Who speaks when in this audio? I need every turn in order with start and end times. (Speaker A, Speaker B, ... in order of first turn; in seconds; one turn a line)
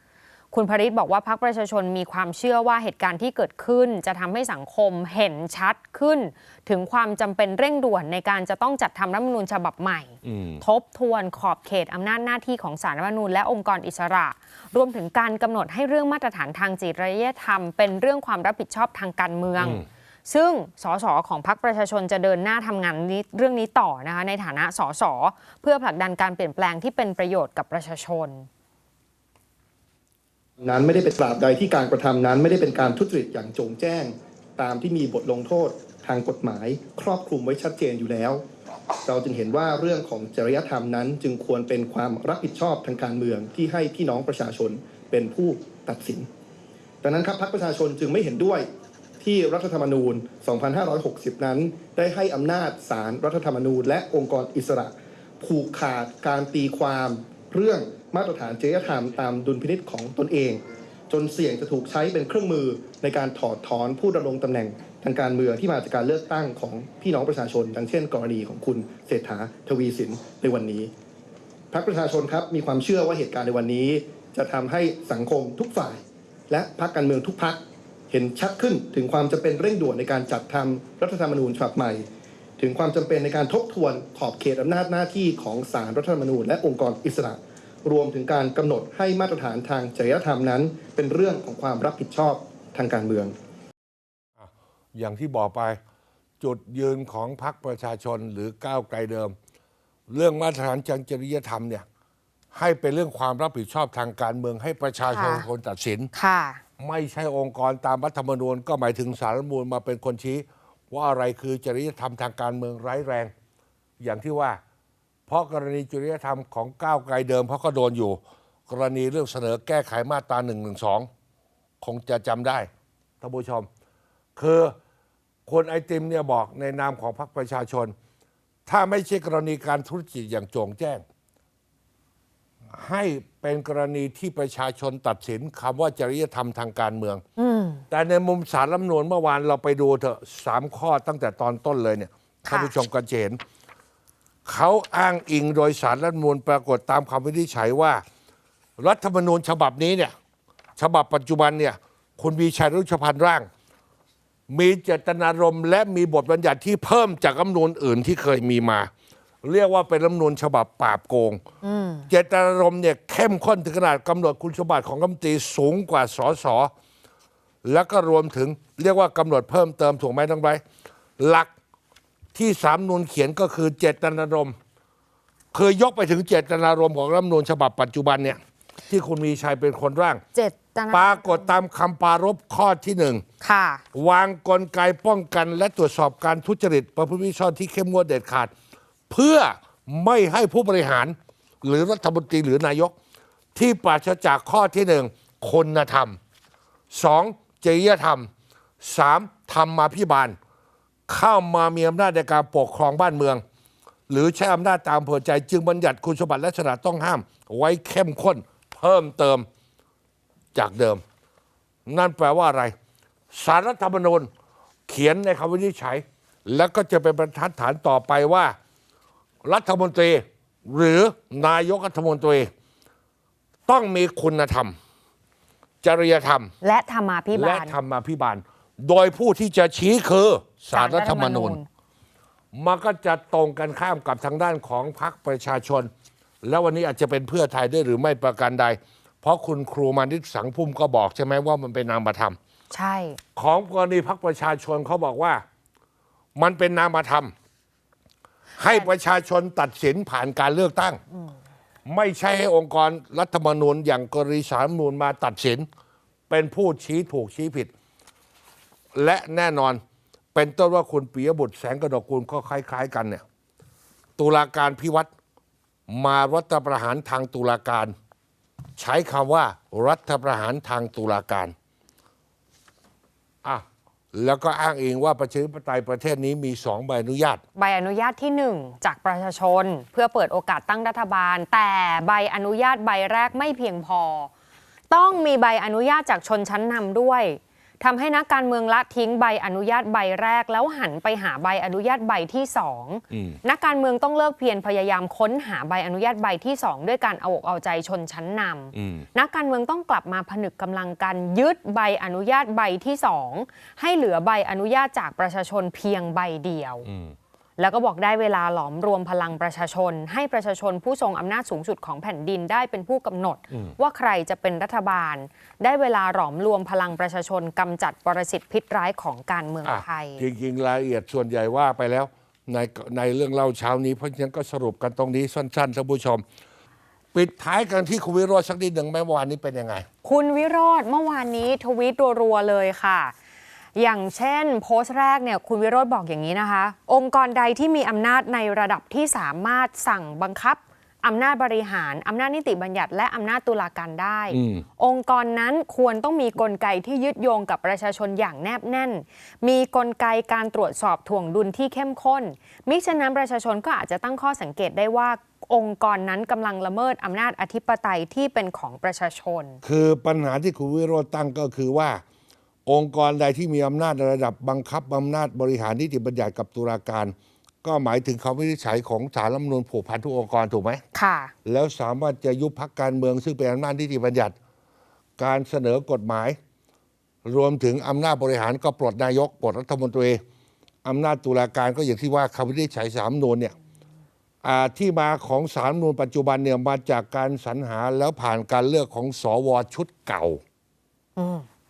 Speaker A: 0.5-28.5
Speaker B: 10.2-10.6
Speaker B: 19.6-19.8
Speaker C: 30.6-38.4
Speaker C: 39.0-46.3
Speaker C: 47.0-48.7
Speaker C: 49.2-70.9
Speaker C: 71.7-82.1
Speaker C: 82.6-93.3
Speaker B: 94.4-95.8
Speaker B: 96.4-99.4
Speaker B: 100.1-101.8
Speaker B: 102.5-106.1
Speaker A: 105.1-105.5
Speaker A: 106.1-106.6
Speaker B: 106.8-113.3
Speaker B: 114.0-114.6
Speaker B: 115.3-121.1
Speaker B: 121.8-122.7
Speaker B: 123.2-123.7
Speaker B: 124.4-124.8
Speaker B: 125.5-127.9
Speaker B: 128.7-131.0
Speaker B: 132.7-137.2
Speaker A: 137.4-137.8
Speaker B: 137.9-143.4
Speaker A: 142.5-142.7
Speaker B: 144.4-148.0
Speaker B: 148.8-150.1
Speaker B: 150.8-153.5
Speaker B: 154.5-158.9
Speaker B: 159.4-161.4
Speaker A: 161.6-162.1
Speaker B: 162.1-166.7
Speaker B: 167.6-170.6
Speaker B: 171.2-171.5
Speaker B: 172.3-174.6
Speaker B: 175.5-178.4
Speaker B: 178.9-180.2
Speaker A: 180.3-181.5
Speaker B: 180.9-183.2
Speaker A: 183.4-183.8
Speaker B: 183.9-188.5
Speaker B: 189.1-192.9
Speaker B: 193.6-196.2
Speaker B: 196.9-198.3
Speaker B: 198.8-200.4
Speaker B: 201.1-203.4
Speaker B: 204.1-209.5
Speaker B: 210.5-211.0
Speaker B: 211.9-212.8
Speaker B: 213.3-214.3
Speaker B: 214.9-218.6
Speaker B: 219.4-222.5
Speaker B: 223.7-224.8
Speaker B: 225.8-226.5
Speaker A: 226.6-227.8
Speaker B: 227.3-231.6
Speaker A: 230.7-231.7
Speaker B: 232.5-235.9
Speaker B: 236.4-242.4
Speaker A: 242.7-243.2
Speaker B: 243.4-245.4
Speaker B: 246.3-247.3
Speaker B: 248.6-251.0
Speaker B: 251.9-255.7
Speaker B: 256.3-257.7
Speaker B: 258.9-259.8
Speaker B: 260.3-263.2
Speaker B: 264.2-265.1
Speaker B: 265.9-267.9
Speaker B: 268.8-271.5
Speaker B: 273.4-277.4
Speaker A: 277.6-284.3
Speaker A: 284.9-306.9
Speaker B: 293.1-293.4
Speaker B: 298.7-299.1
Speaker B: 306.9-307.1
Speaker A: 307.6-320.2
Speaker B: 319.6-326.2
Speaker B: 327.1-329.9
Speaker A: 330.0-333.1
Speaker A: 333.8-359.6
Speaker B: 344.3-344.6
Speaker B: 359.6-362.0
Speaker B: 362.7-370.8
Speaker A: 370.9-371.3
Speaker B: 371.4-374.4
Speaker B: 375.2-376.4
Speaker B: 377.2-380.2
Speaker B: 380.8-383.5
Speaker B: 384.4-390.4
Speaker A: 391.2-391.4